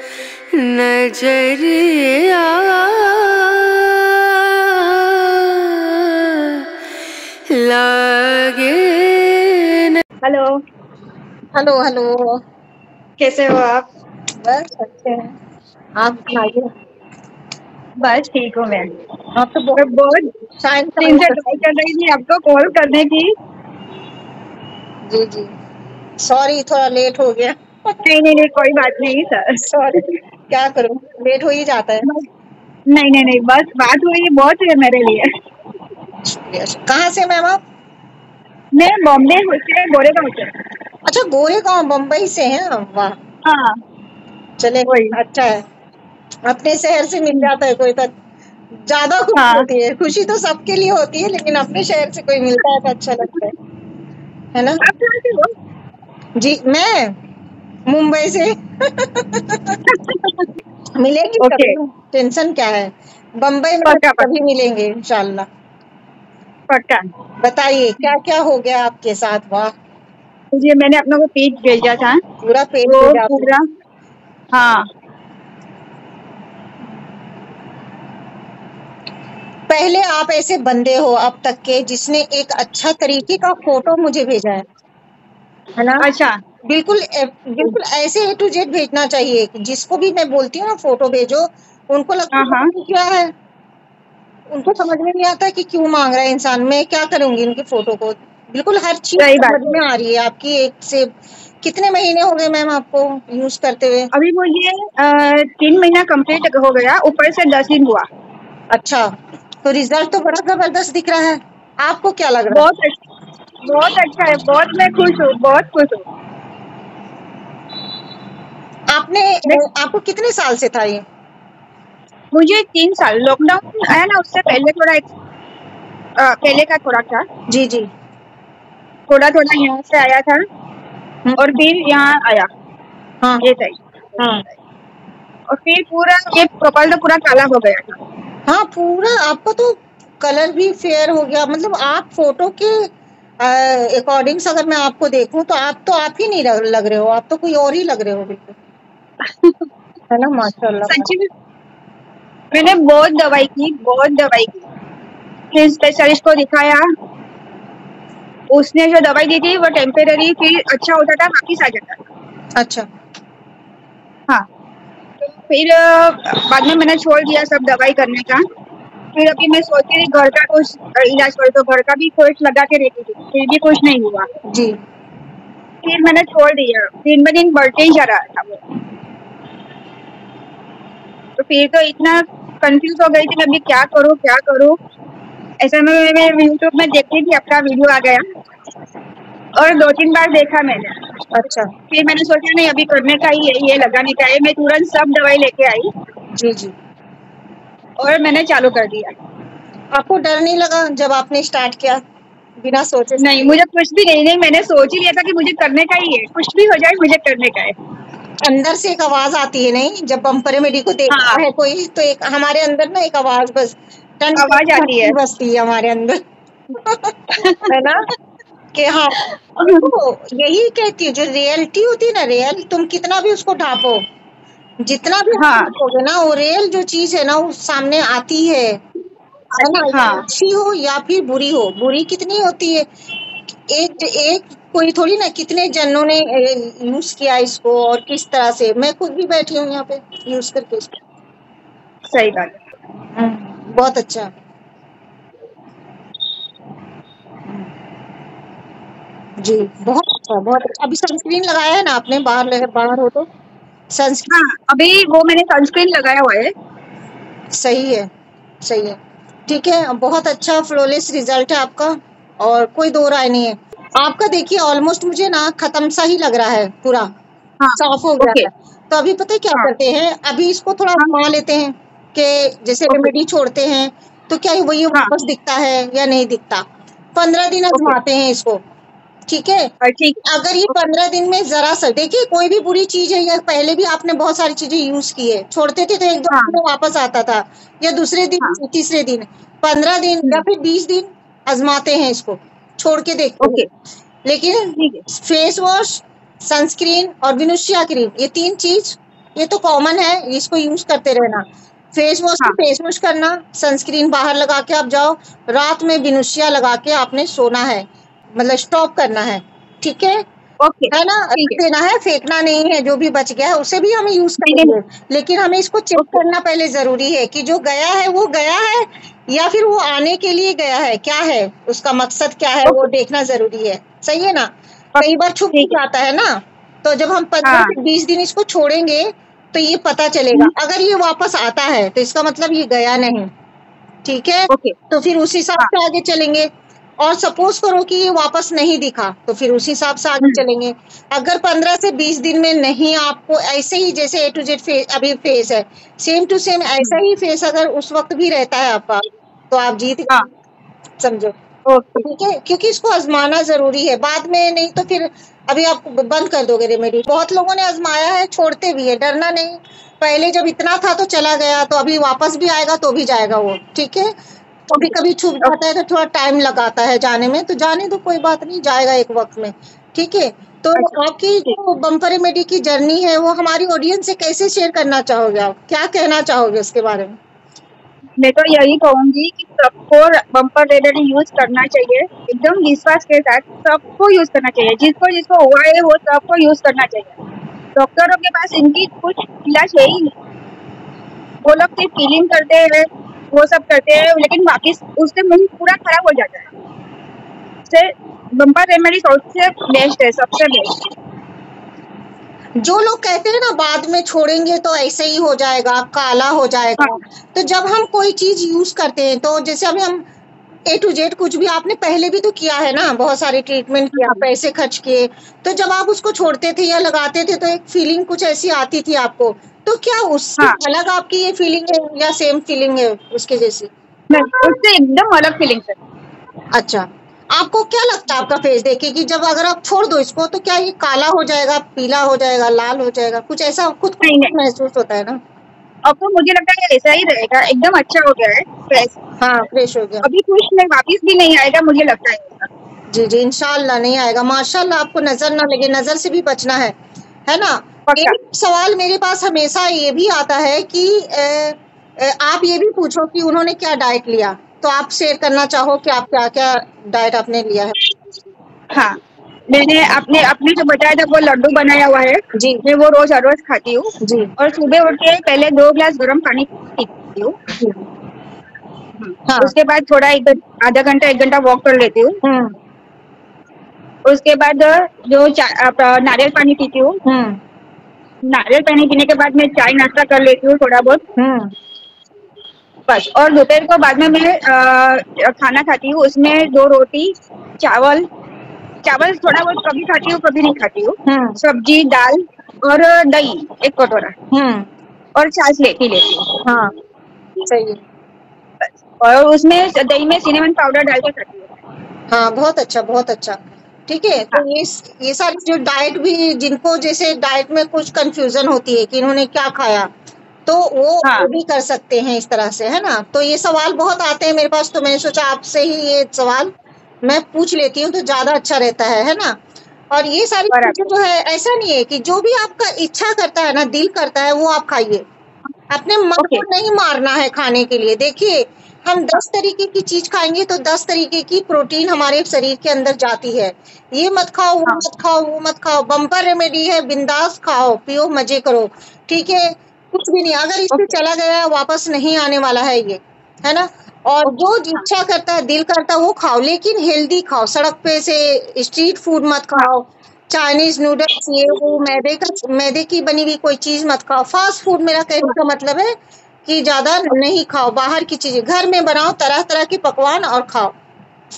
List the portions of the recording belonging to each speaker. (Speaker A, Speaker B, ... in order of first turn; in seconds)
Speaker A: 0.5-6.6, 7.5-10.0
Speaker B: 10.2-10.6, 13.2-13.9, 18.0-18.9, 19.8-20.3, 21.0-23.3, 28.0-29.7, 32.9-35.3, 38.8-40.5, 43.5-43.8, 44.9-45.2, 49.4-49.7, 54.8-55.5, 59.9-60.5, 61.4-61.8, 63.9-64.3, 66.7-67.1, 70.5-72.2, 72.9-73.7, 74.5-74.9, 86.0-86.4, 92.3-92.7, 99.2-99.8, 104.1-108.1, 112.5-113.0, 113.6-116.1, 122.3-125.1, 126.2-127.3, 129.1-130.4, 131.4-132.5, 133.4-134.6, 135.5-138.0, 149.2-149.7, 150.9-151.3, 152.5-154.7, 155.5-156.9, 158.5-162.0, 165.2-168.4, 169.2-174.3, 175.8-178.6, 181.4-184.8, 185.6-188.2, 189.6-191.0, 191.9-195.9, 198.0-199.2, 203.2-207.8, 211.1-211.4, 214.3-215.2, 217.3-217.7, 219.2-219.9, 225.3-225.7, 229.5-230.3, 242.1-242.7, 254.3-256.5, 267.6-268.5, 277.7-278.0, 279.8-280.7, 286.3-286.6, 293.4-293.7, 294.8-295.0, 310.6-311.6, 314.4-314.8, 324.9-325.8, 327.4-327.8, 334.5-334.8, 351.7-352.1, 364.7-365.6, 370.8-371.6, 378.2-387.2, 387.8-390.1, 391.4-396.5, 397.7-400.8, 413.9-414.2, 424.1-425.8, 434.0-434.3, 435.9-439.0, 440.0-442.5, 447.9-448.2, 459.5-467.4, 469.0-472.2, 474.1-477.0, 478.3-481.1, 482.9-488.1, 488.8-494.1, 495.2-496.4, 498.6-501.6, 511.0-511.3, 520.5-520.8, 526.2-526.5, 540.7-541.0, 544.2-544.9
Speaker C: 11.6-12.4, 14.4-15.3, 16.0-16.7, 19.4-19.9, 20.6-21.6, 25.1-25.5, 26.2-28.0, 29.6-32.1, 36.2-37.6, 41.1-43.2, 44.6-45.6, 46.5-48.1, 48.9-53.5, 54.5-54.8, 56.4-57.1, 57.9-59.8, 61.0-65.5, 67.4-69.7, 72.4-73.5, 79.7-84.7, 85.8-86.1, 86.7-93.3, 94.5-101.1, 101.6-104.1, 108.7-109.1, 109.6-112.7, 118.9-121.0, 127.5-127.9, 131.2-131.6, 134.2-134.4, 138.5-142.9, 143.4-148.6, 150.1-151.1, 162.6-162.9, 174.5-174.8, 191.3-191.7, 196.3-196.7, 199.9-202.0, 202.6-203.6, 208.4-216.2, 216.8-217.1, 217.7-218.1, 218.7-224.0, 224.8-228.8, 229.6-232.9, 233.7-240.9, 243.2-244.3, 249.4-253.3, 253.9-254.3, 257.5-258.1, 258.6-259.0, 259.5-267.1, 267.8-276.6, 277.2-278.6, 279.3-279.7, 280.2-293.6, 294.3-301.4, 301.9-307.9, 308.4-310.2, 310.9-333.3, 334.1-336.5, 337.0-350.2, 351.0-351.3, 352.0-364.1, 364.8-377.2, 402.6-410.0, 410.7-423.7, 426.5-435.2, 439.2-440.1, 442.9-446.7, 447.3-457.8, 462.3-462.6, 464.0-464.3, 469.3-469.5, 472.2-472.6, 477.1-477.4, 481.2-481.5, 491.1-491.4, 494.3-494.7, 496.4-496.7, 497.5-497.8, 502.1-509.9, 510.5-516.5, 517.1-519.4, 519.9-525.0, 525.7-556.0, 556.5-560.7